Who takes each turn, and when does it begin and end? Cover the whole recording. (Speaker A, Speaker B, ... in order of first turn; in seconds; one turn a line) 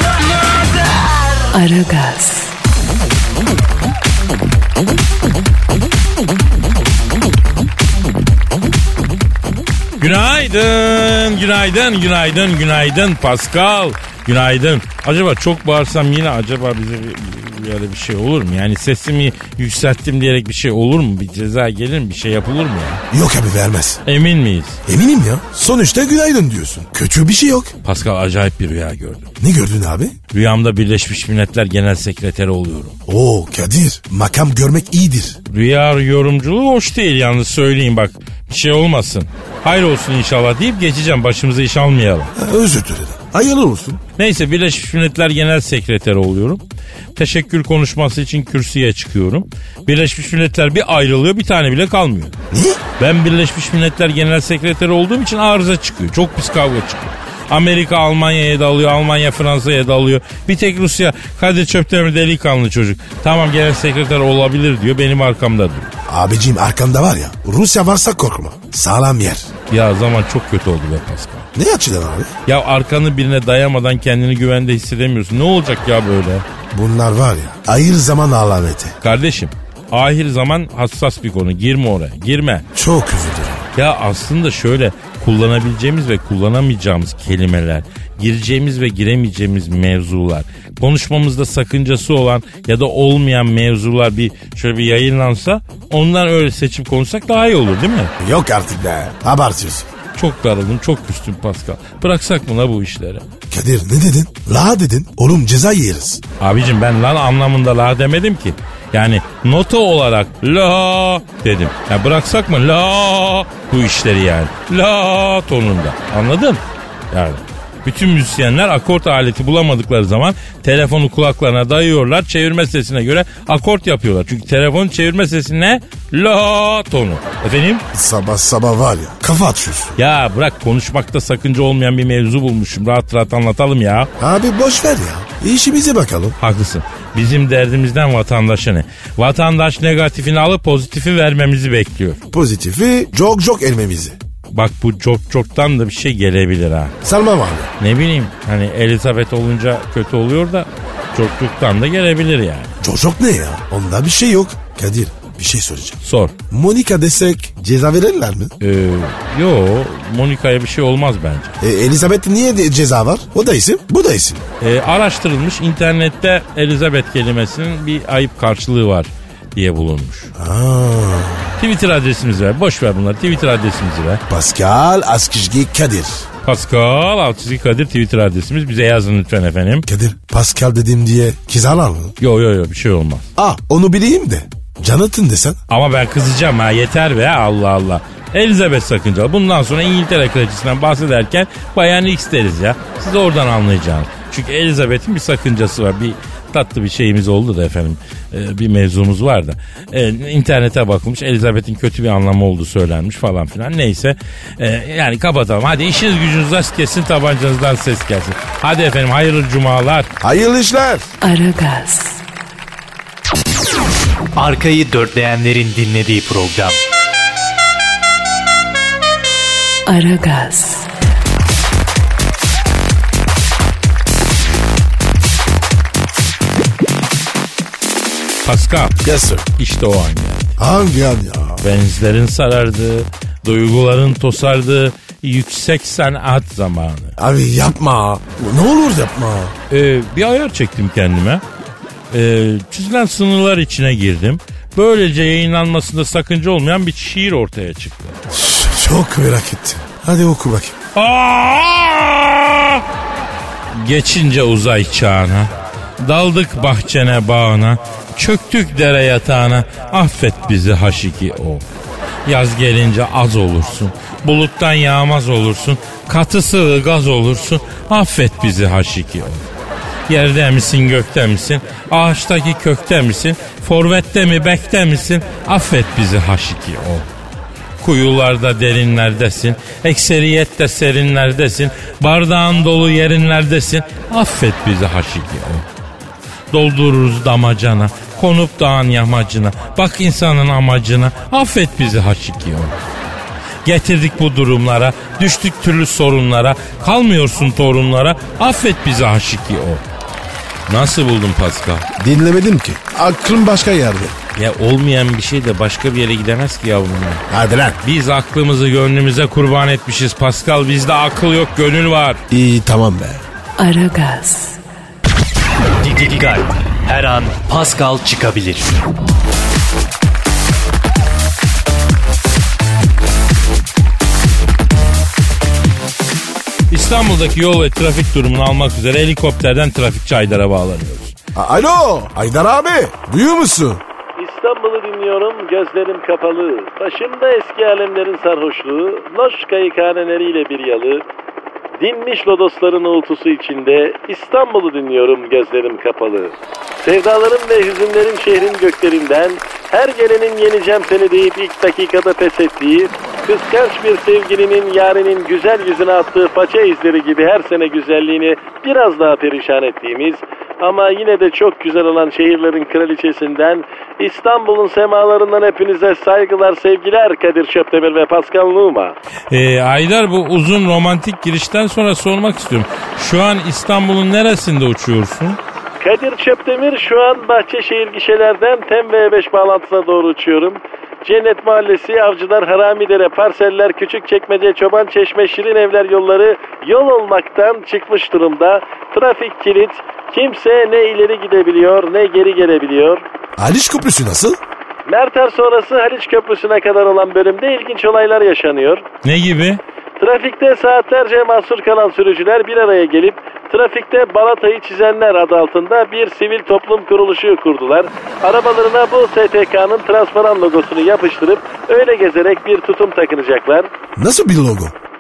Speaker A: 1.5-2.5
Speaker B: 10.0-23.0
Speaker C: 23.1-24.0
Speaker B: 24.1-24.8
Speaker C: 24.9-27.7
Speaker B: 27.8-29.3
Speaker C: 29.4-30.2
Speaker B: 30.3-33.0
Speaker C: 33.1-35.4
Speaker B: 35.5-42.3
Speaker C: 42.4-44.0
Speaker B: 44.2-46.6
Speaker B: 47.2-52.4
Speaker C: 52.5-52.8
Speaker B: 53.0-65.9
Speaker C: 66.1-69.5
Speaker B: 69.7-71.5
Speaker C: 71.6-72.3
Speaker B: 72.5-76.5
Speaker C: 76.7-79.0
Speaker B: 79.0-82.7
Speaker C: 82.8-83.7
Speaker B: 83.8-98.1
Speaker C: 98.2-99.9
Speaker B: 100.2-103.3
Speaker C: 103.5-106.2
Speaker B: 106.4-127.8
Speaker C: 127.9-130.0
Speaker B: 130.0-134.1
Speaker C: 134.2-136.4
Speaker B: 136.4-142.2
Speaker C: 142.3-144.2
Speaker B: 144.5-146.9
Speaker C: 147.0-147.7
Speaker B: 147.8-152.7
Speaker C: 152.8-156.0
Speaker B: 156.0-156.4
Speaker C: 156.5-158.5
Speaker B: 158.6-161.6
Speaker C: 161.6-164.4
Speaker B: 164.6-170.3
Speaker C: 170.4-171.6
Speaker B: 171.6-174.2
Speaker C: 174.3-176.3
Speaker B: 176.4-179.9
Speaker C: 179.9-182.2
Speaker B: 182.2-183.3
Speaker C: 183.4-185.6
Speaker B: 185.7-210.1
Speaker C: 210.2-211.1
Speaker A: 211.2-212.2
Speaker D: 214.4-216.8
Speaker A: 219.9-220.9
Speaker B: 228.4-229.0
Speaker C: 229.0-229.4
Speaker B: 229.6-230.6
Speaker C: 230.6-231.6
Speaker B: 231.6-237.1
Speaker C: 237.2-239.5
Speaker B: 239.7-241.4
Speaker B: 242.1-248.2
Speaker C: 248.3-250.8
Speaker B: 250.9-252.8
Speaker B: 253.7-261.6
Speaker B: 262.2-269.5
Speaker B: 270.1-277.1
Speaker B: 277.8-285.7
Speaker B: 286.5-292.8
Speaker B: 293.6-299.8
Speaker B: 300.7-301.9
Speaker C: 302.0-304.2
Speaker B: 304.4-307.2
Speaker C: 307.3-307.8
Speaker B: 307.8-312.2
Speaker C: 312.3-313.2
Speaker A: 313.6-314.6
Speaker D: 315.8-318.7
Speaker B: 326.7-331.2
Speaker C: 331.4-333.8
Speaker E: 334.2-341.0
Speaker E: 341.8-369.0
Speaker B: 369.3-375.4
Speaker E: 375.8-393.0
Speaker C: 393.4-394.4
Speaker E: 394.9-398.8
Speaker B: 399.0-399.6
Speaker E: 400.0-413.7
Speaker C: 414.0-414.7